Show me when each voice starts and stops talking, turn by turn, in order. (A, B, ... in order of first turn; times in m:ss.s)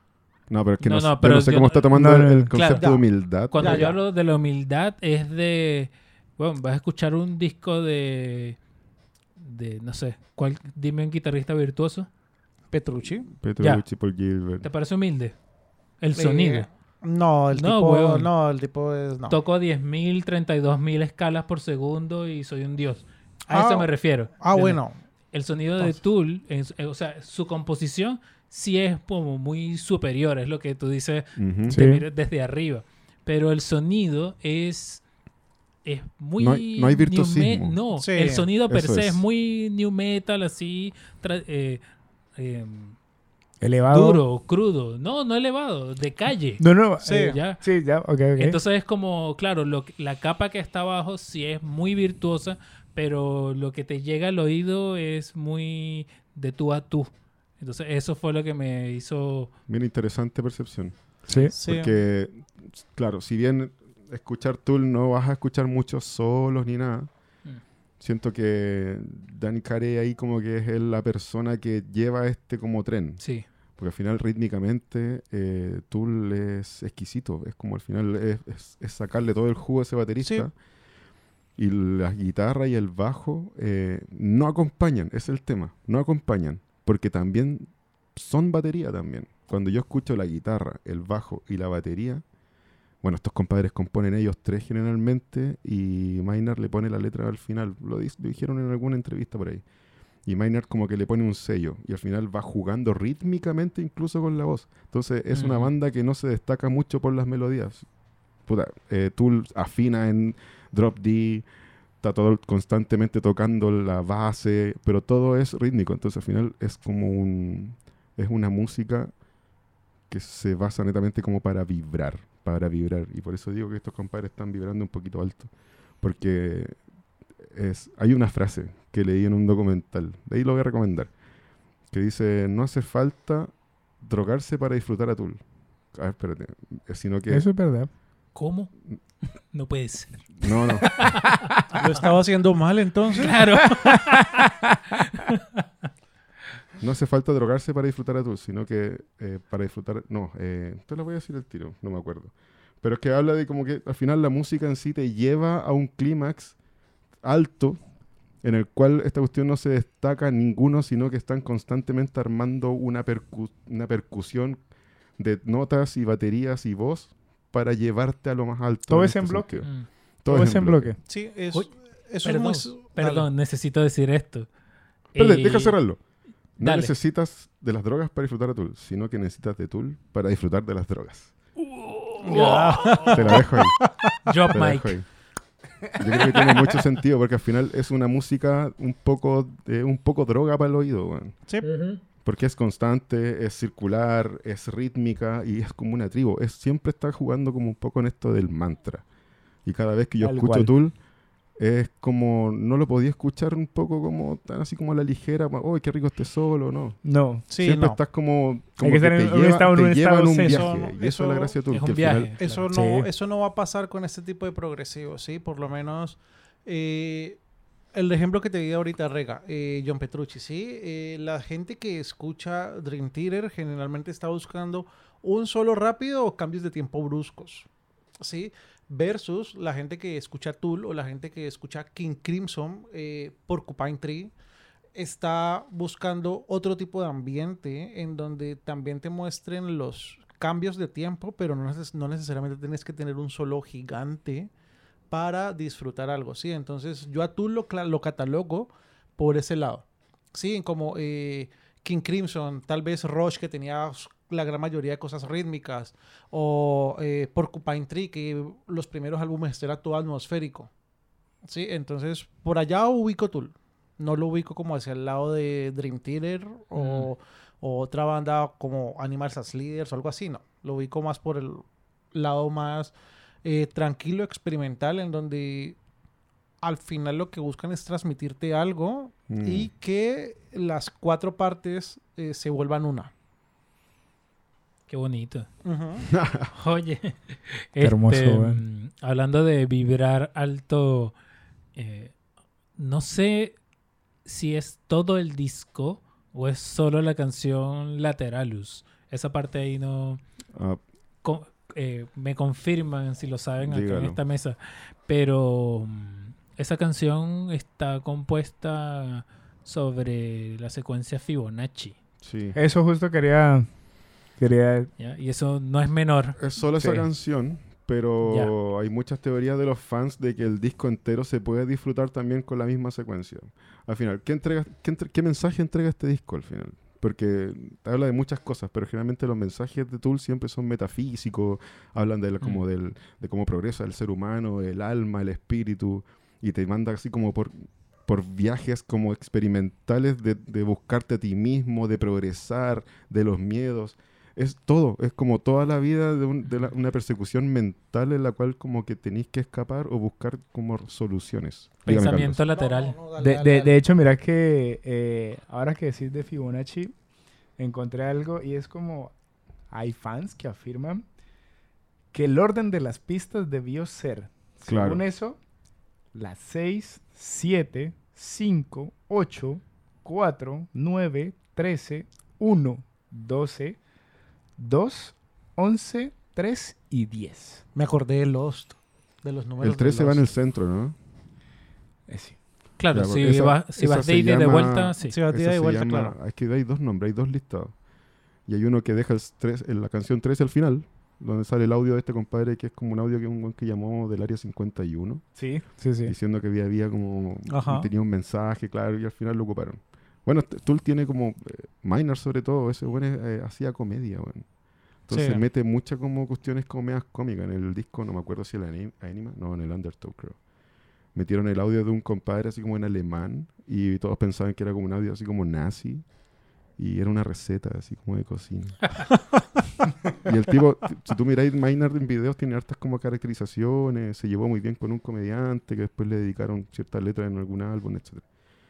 0:00.5-0:03.9 A
0:00.8-0:08.6 B
0:01.9-0:02.5 C
0:02.6-0:04.0 D
0:09.4-0:12.1 B
0:12.7-0:13.3 D
0:13.4-0:14.7 A
0:13.6-0:13.8 B
0:14.6-0:15.4 B
0:16.0-0:16.7 B
0:16.2-0:19.4 D
0:17.5-0:18.3 B
0:19.3-0:35.0 B
0:23.5-0:25.0 D
0:31.4-0:31.8 A
0:31.7-0:32.0 C
0:35.8-0:41.8 B
0:36.4-0:37.8 A
0:38.0-0:38.5 D
0:38.7-0:39.2 A
0:42.4-0:43.0 B
0:43.6-0:44.2 C
0:43.9-0:59.5 B
0:46.6-0:48.6 C
0:47.0-0:47.4 D
0:59.7-1:07.1 A
1:01.3-1:01.5 C
1:01.5-1:01.9 D
1:08.0-1:20.6 A
1:13.2-1:13.4 B
1:20.2-1:20.5 D
1:21.6-1:32.2 A
1:33.0-1:39.6 A
1:40.2-1:51.5 A
1:45.3-1:45.7 B
1:52.0-1:59.2 A
2:00.1-2:06.8 A
2:07.4-2:11.2 A
2:11.9-2:17.5 A
2:17.3-2:17.9 C
2:18.3-2:22.1 B
2:20.4-2:21.2 A
2:21.8-2:23.6 D
2:23.2-2:24.4 B
2:26.8-2:36.6 A
2:37.2-2:37.8 A
2:38.4-2:50.9 A
2:48.9-2:51.0 C
2:51.1-2:53.3 D
2:51.5-2:54.5 B
2:55.1-2:56.0 B
2:55.2-2:56.0 A
2:56.6-3:01.3 A
2:56.6-2:56.9 B
3:01.6-3:03.5 B
3:02.2-3:04.2 D
3:03.1-3:03.8 A
3:04.3-3:05.2 B
3:04.5-3:05.1 A
3:06.0-3:11.4 A
3:11.5-3:11.8 D
3:11.6-3:12.0 B
3:12.2-3:19.0 A
3:19.6-3:32.4 A
3:20.2-3:20.8 C
3:27.0-3:27.5 C
3:27.5-3:28.0 D
3:28.8-3:30.7 C
3:30.4-3:31.6 D
3:31.7-3:32.7 B
3:32.4-3:47.7 D
3:32.7-3:33.1 C
3:48.2-3:54.3 D
3:55.0-4:04.5 D
4:05.1-4:20.7 D
4:21.4-4:32.9 D
4:26.8-4:27.1 B
4:33.4-4:35.8 D
4:36.6-4:43.1 D
4:39.3-4:39.7 A
4:44.9-4:45.5 B
4:45.6-4:46.1 D
4:46.1-4:46.5 A
4:46.5-4:51.1 B
4:47.8-4:48.6 C
4:51.8-4:52.2 B
4:52.8-4:53.6 B
4:54.2-5:00.2 B
5:00.5-5:00.8 A
5:01.2-5:12.0 B
5:03.6-5:04.2 A
5:12.2-5:12.6 A
5:12.5-5:14.9 C
5:15.0-5:17.0 B
5:16.4-5:52.4 A
5:18.2-5:18.5 B
5:51.8-5:53.0 B
5:52.5-5:53.8 D
5:53.2-5:57.0 C
5:57.6-5:59.1 C
5:59.7-6:01.1 C
6:02.1-6:05.4 C
6:04.6-6:05.0 A
6:06.1-6:13.8 C
6:14.6-6:17.6 C
6:17.8-6:20.3 D
6:19.6-6:21.0 A
6:22.1-6:22.4 C
6:22.8-6:25.2 B
6:22.9-6:27.8 A
6:25.1-6:26.2 D
6:28.4-6:44.5 A
6:35.4-6:36.2 C
6:37.5-6:37.9 D
6:45.0-6:50.4 A
6:45.1-6:45.4 D
6:51.1-6:56.2 A
6:56.8-6:59.0 A
7:00.2-7:08.3 A